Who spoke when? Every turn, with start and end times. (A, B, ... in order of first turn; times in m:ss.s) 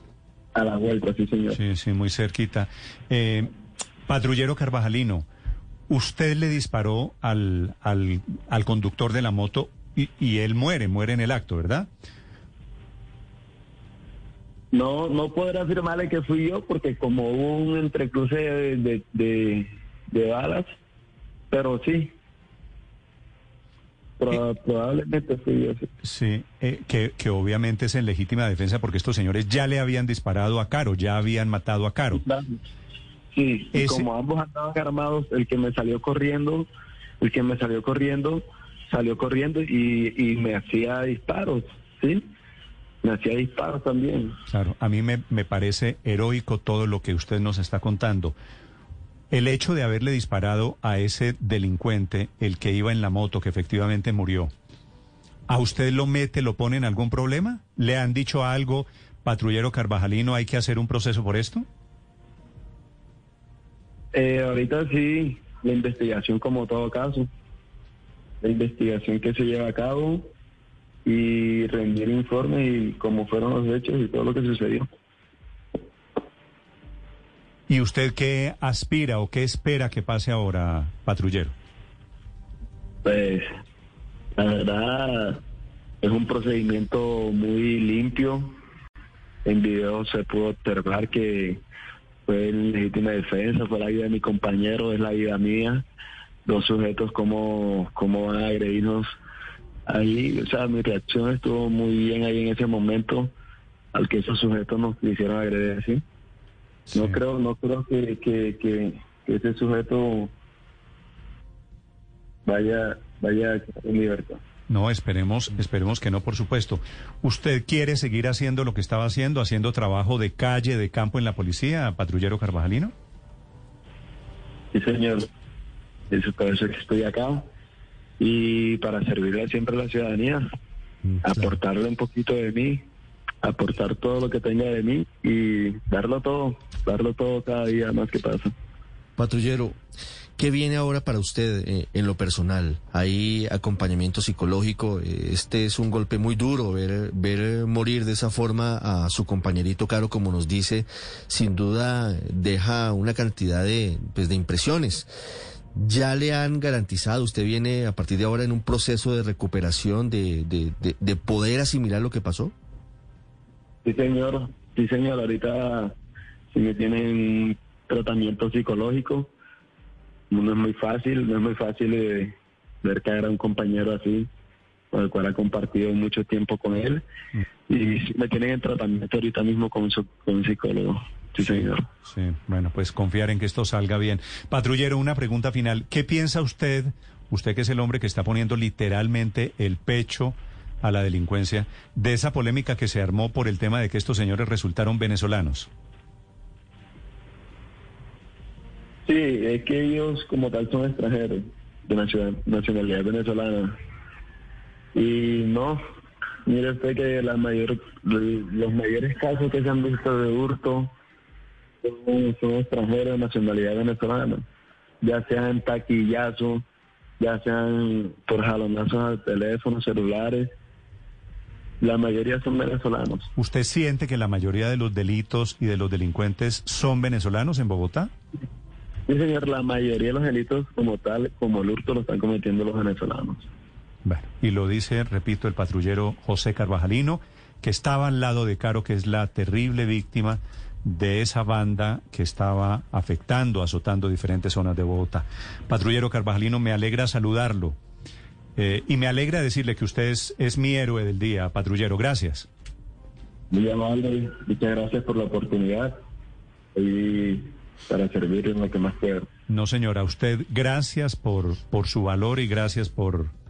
0:00.5-0:01.6 A
0:01.5-0:03.5 B
0:04.1-0:05.3 B
0:05.9-0:11.9 B
0:14.7-0:20.7 A
0:21.5-0:22.1 A
0:24.2-0:25.9 A
0:26.0-0:32.2 B
0:32.1-0:32.6 A
0:33.3-0:36.7 A
0:33.7-0:34.1 B
0:37.2-0:42.3 A
0:43.0-0:44.4 A
0:44.5-0:48.4 B
0:49.3-0:54.5 B
0:55.5-1:01.7 B
1:04.1-1:07.3 A
1:08.4-1:10.3 A
1:11.0-1:14.9 A
1:17.7-1:21.5 B
1:23.0-1:23.5 A
1:24.4-1:25.4 A
1:26.0-1:28.6 A
1:29.4-1:31.6 A
1:32.3-1:35.8 A
1:36.4-1:39.1 A
1:39.9-1:43.3 A
1:43.9-1:46.0 A
1:46.9-1:47.2 B
1:46.9-1:50.3 A
1:52.4-1:54.4 A
1:54.7-2:02.9 B
2:04.7-2:05.3 A
2:06.1-2:07.5 A
2:08.2-2:10.4 A
2:11.0-2:11.6 C
2:11.2-2:12.9 A
2:13.4-2:18.5 A
2:19.2-2:19.8 C
2:20.4-2:35.1 C
2:35.7-2:42.5 C
2:43.8-2:46.0 A
2:46.5-2:49.3 A
2:50.3-2:54.3 A
2:54.9-2:57.0 A
2:57.7-3:01.8 A
3:01.4-3:15.7 B
3:19.1-3:23.8 A
3:24.9-3:25.8 A
3:26.5-3:30.9 A
3:31.8-3:34.4 A
3:35.0-3:36.6 A
3:37.2-3:40.5 A
3:41.8-3:43.3 A
3:43.4-3:48.1 B
3:49.1-3:53.5 A
3:54.0-4:07.8 B
4:08.6-4:12.5 B
4:13.5-4:16.0 A
4:16.7-4:19.3 A
4:19.5-4:23.3 B